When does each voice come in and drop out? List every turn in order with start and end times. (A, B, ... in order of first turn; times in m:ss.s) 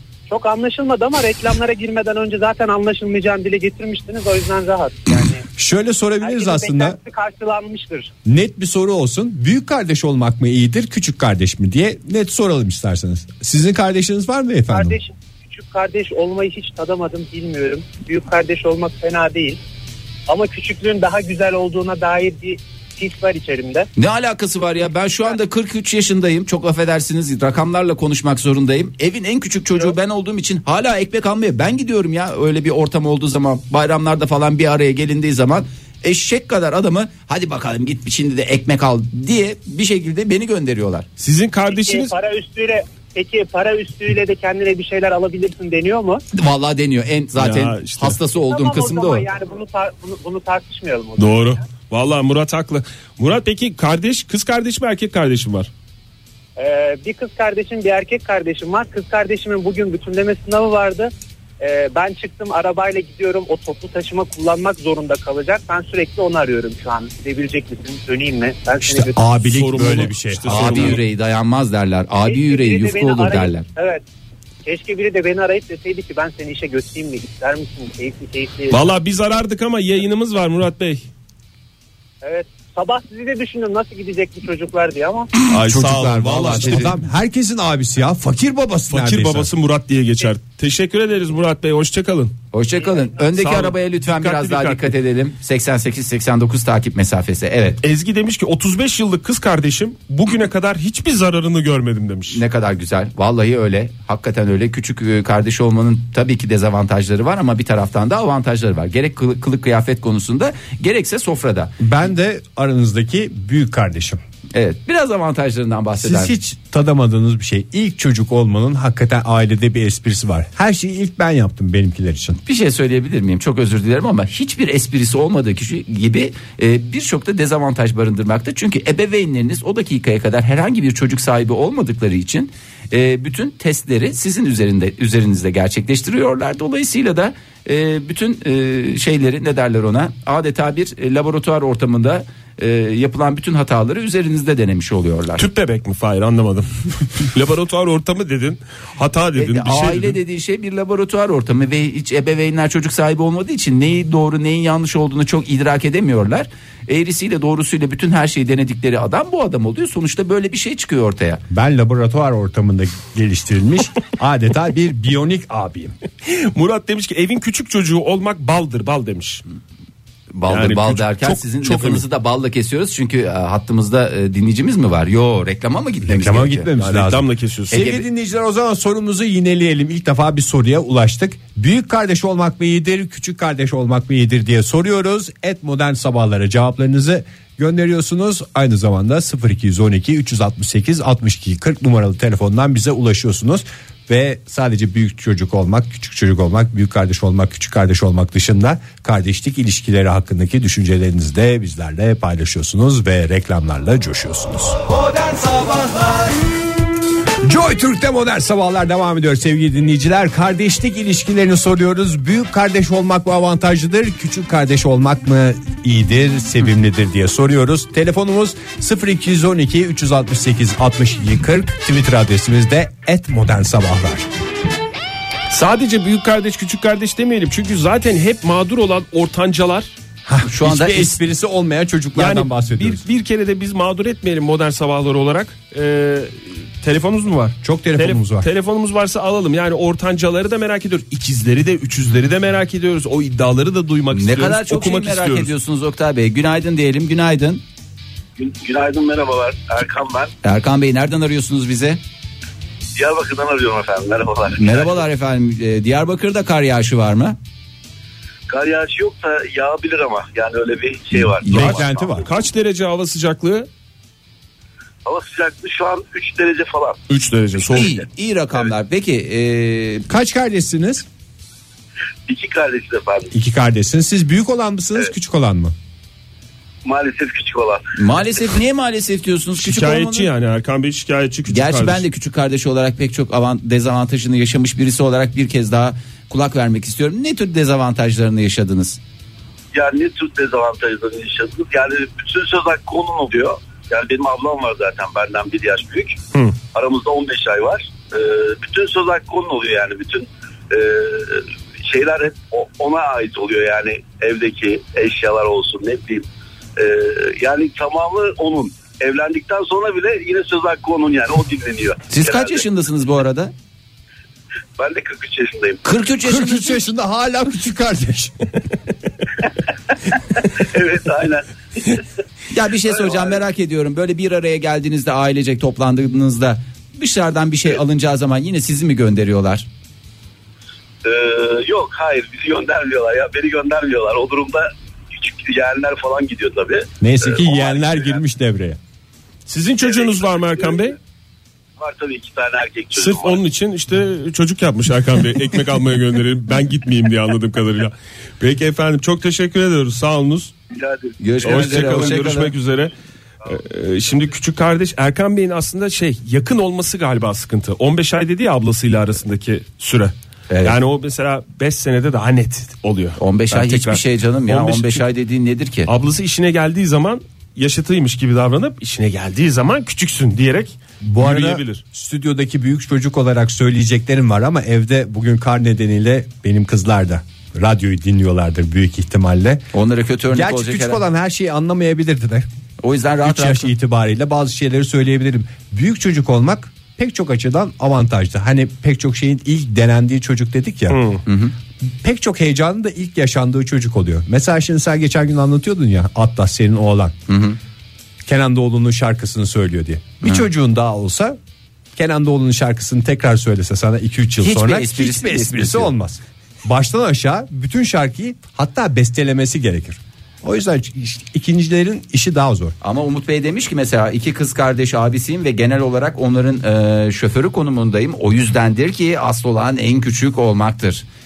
0:00.3-0:05.4 A
0:05.5-0:07.0 B
0:06.2-0:08.1 A
0:08.2-0:15.0 B
0:14.7-0:19.6 A
0:20.3-0:23.9 A
0:24.0-0:41.1 C
0:41.2-0:42.1 D
0:41.7-0:46.2 A
0:46.3-0:49.3 C
0:47.4-0:48.2 D
0:48.5-0:51.6 A
0:51.2-0:55.7 D
0:56.6-1:09.3 A
1:08.8-1:11.0 B
1:09.5-1:11.0 D
1:10.5-1:13.7 C
1:12.3-1:14.0 A
1:14.6-1:18.8 A
1:18.7-1:21.1 D
1:22.2-1:25.3 A
1:25.5-1:27.0 D
1:25.7-1:29.5 B
1:26.4-1:26.6 C
1:28.9-1:32.4 D
1:32.5-1:37.8 C
1:32.8-1:33.1 A
1:33.4-1:34.9 D
1:37.8-1:42.4 D
1:42.3-1:51.8 C
1:51.8-1:54.2 B
1:54.5-1:56.3 C
1:56.0-2:02.4 B
2:02.4-2:25.5 C
2:25.4-2:30.2 D
2:29.4-2:41.4 C
2:41.5-2:46.0 B
2:46.2-2:49.4 D
2:50.3-2:56.7 C
2:50.5-2:52.0 D
2:56.0-3:26.3 B
2:56.8-2:57.9 D
2:57.7-2:58.0 C
3:27.4-3:44.3 B
3:45.5-3:50.0 D
3:50.3-3:53.0 B
3:50.5-3:51.2 C
3:52.2-4:05.5 D
3:57.6-3:58.5 B
4:04.1-4:07.6 C
4:08.4-4:10.3 E
4:10.4-4:12.0 C
4:13.0-4:15.0 E
4:14.5-4:17.4 C
4:18.5-4:22.3 E
4:21.4-4:22.3 B
4:21.5-4:23.7 D
4:25.0-4:27.0 E
4:27.1-4:28.0 D
4:27.7-4:30.1 C
4:30.1-4:31.1 B
4:32.3-4:33.3 E
4:33.3-4:35.7 B
4:36.8-4:38.4 E
4:38.0-4:40.3 C
4:39.6-4:42.0 D
4:41.5-4:49.0 C
4:49.7-4:56.2 E
4:56.7-5:12.6 E
5:12.1-5:13.5 C
5:14.8-5:15.8 E
5:15.8-5:16.8 C
5:16.2-5:18.4 B
5:20.4-5:22.0 E
5:22.5-5:29.7 C
5:22.9-5:23.4 E
5:31.0-5:38.2 E
5:37.0-5:38.8 B
5:39.5-5:41.0 D
5:39.8-5:41.0 E
5:41.8-5:43.4 E
5:42.9-5:50.5 D
5:50.7-5:51.2 E
5:51.2-5:52.6 C
5:51.4-5:52.9 D
5:53.5-6:05.0 D
6:00.5-6:00.8 C
6:03.2-6:05.9 C
6:05.9-6:11.8 D
6:11.0-6:19.6 B
6:19.7-6:21.0 C
6:20.3-6:22.5 B
6:22.8-6:23.7 C
6:23.2-6:31.2 B
6:30.9-6:31.2 D
6:31.3-6:31.5 C
6:31.9-6:37.2 B
6:37.3-6:37.6 C
6:38.3-6:41.4 B
6:42.0-6:52.8 B
6:44.4-6:45.9 C
6:52.8-7:01.1 C